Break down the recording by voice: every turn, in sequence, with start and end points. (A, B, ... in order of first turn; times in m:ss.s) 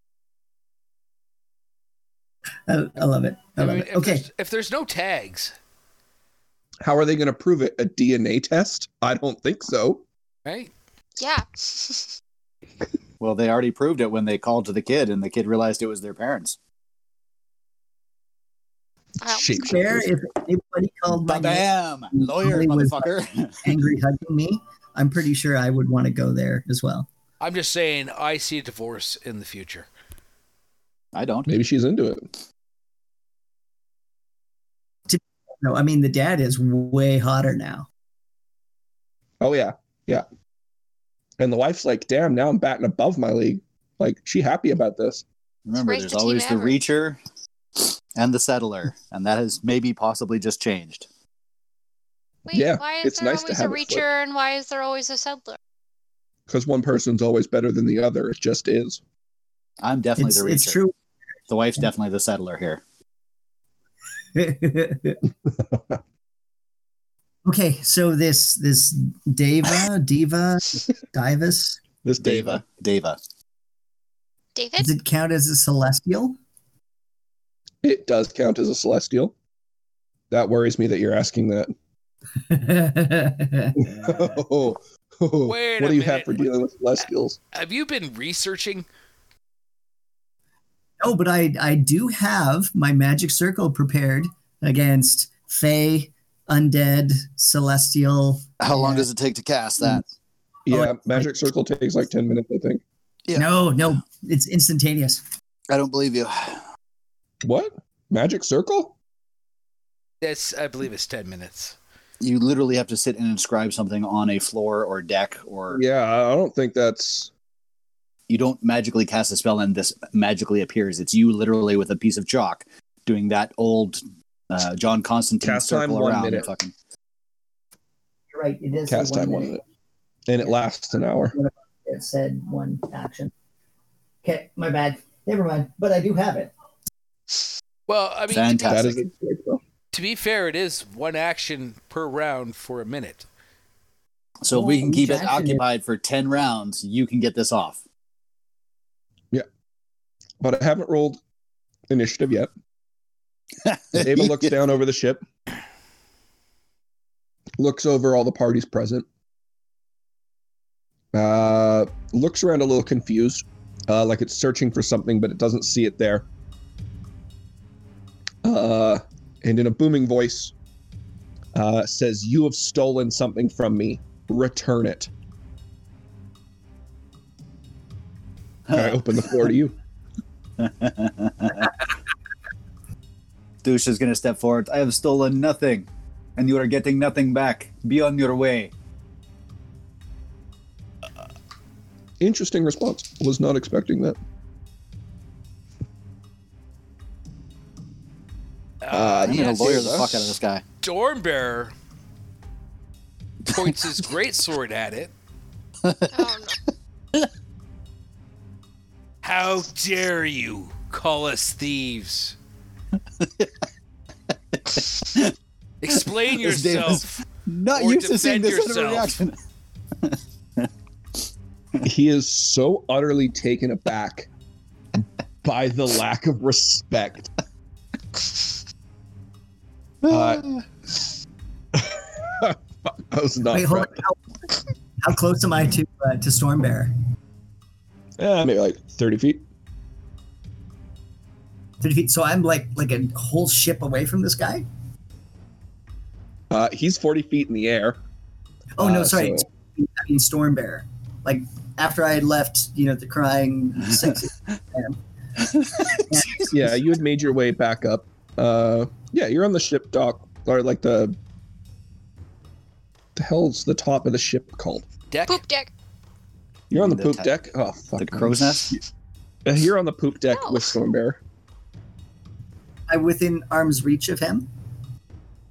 0:02.7-0:04.2 A
0:03.6-0:05.5 B
0:06.8-0:10.0 C
0:10.4-0:10.7 B
0:11.2-0:12.1 D
0:13.2-0:16.6 E
0:19.2-0:20.1 C
0:19.2-0:19.8 D
0:19.6-0:27.1 A
0:21.1-0:23.7 E
0:27.4-0:29.9 B
0:31.1-0:31.5 E
0:31.4-0:32.3 C
0:35.1-0:37.9 A
0:39.4-0:40.2 C
0:41.4-0:45.2 C
0:45.7-0:47.2 E
0:45.8-0:46.8 D
0:47.8-0:51.1 E
0:52.5-0:55.6 D
0:52.5-0:54.1 C
0:56.5-0:59.0 C
0:59.8-1:00.8 E
1:00.2-1:00.9 A
1:01.5-1:02.8 E
1:04.3-1:05.2 A
1:05.7-1:06.0 C
1:07.4-1:11.8 A
1:12.0-1:12.6 C
1:12.2-1:13.2 E
1:14.5-1:14.9 D
1:14.8-1:16.4 A
1:17.8-1:19.3 C
1:20.3-1:21.7 C
1:22.5-1:23.9 A
1:23.8-1:27.4 C
1:25.4-1:26.5 B
1:27.5-1:28.8 B
1:31.0-1:39.1 A
1:38.6-1:40.0 E
1:40.6-1:42.8 C
1:40.7-1:41.5 A
1:43.3-1:45.2 A
1:45.7-1:46.6 E
1:47.4-1:48.9 C
1:50.2-1:51.8 B
1:52.2-1:55.8 E
1:55.7-1:57.3 C
1:58.3-2:06.7 E
2:05.4-2:06.5 C
2:08.3-2:09.5 A
2:08.9-2:09.6 C
2:10.3-2:11.3 C
2:11.3-2:13.3 A
2:14.2-2:16.5 A
2:17.9-2:19.0 B
2:18.3-2:19.0 E
2:18.7-2:19.6 C
2:19.9-2:23.3 B
2:24.4-2:27.8 E
2:24.5-2:25.6 A
2:30.4-2:31.2 C
2:31.9-2:32.5 C
2:33.6-2:34.5 E
2:33.9-2:35.2 C
2:37.6-2:39.0 C
2:41.1-2:46.2 C
2:48.4-2:50.5 C
2:51.5-2:55.1 C
2:58.7-2:59.5 E
2:58.7-2:59.7 C
3:00.6-3:01.7 E
3:03.6-3:08.7 E
3:12.2-3:14.2 C
3:18.8-3:20.2 B
3:18.9-3:20.3 C
3:19.2-3:20.6 E
3:20.8-3:21.7 B
3:23.4-3:25.1 B
3:25.8-3:26.3 E
3:26.1-3:26.6 D
3:29.2-3:32.4 B
3:33.2-3:33.5 E
3:34.5-3:35.3 E
3:35.8-3:37.2 B
3:36.3-3:39.4 E
3:37.7-3:39.2 B
3:40.0-3:40.7 E
3:41.8-3:44.3 C
3:45.4-3:47.3 C
3:50.0-3:50.6 E
3:50.1-3:50.5 C
3:51.8-3:54.0 C
3:53.5-3:54.2 A
3:55.0-3:56.9 A
3:58.2-3:59.4 C
4:01.8-4:04.6 A
4:06.5-4:08.0 C
4:08.8-4:15.0 A
4:08.8-4:09.4 C
4:15.4-4:16.5 E
4:15.9-4:16.8 A
4:16.5-4:21.2 C
4:23.2-4:24.8 C
4:25.1-4:25.4 B
4:25.3-4:25.7 D
4:26.7-4:28.8 C
4:26.7-4:27.3 E
4:28.0-4:28.8 E
4:29.4-4:31.2 C
4:30.3-4:30.7 D
4:32.9-4:34.5 A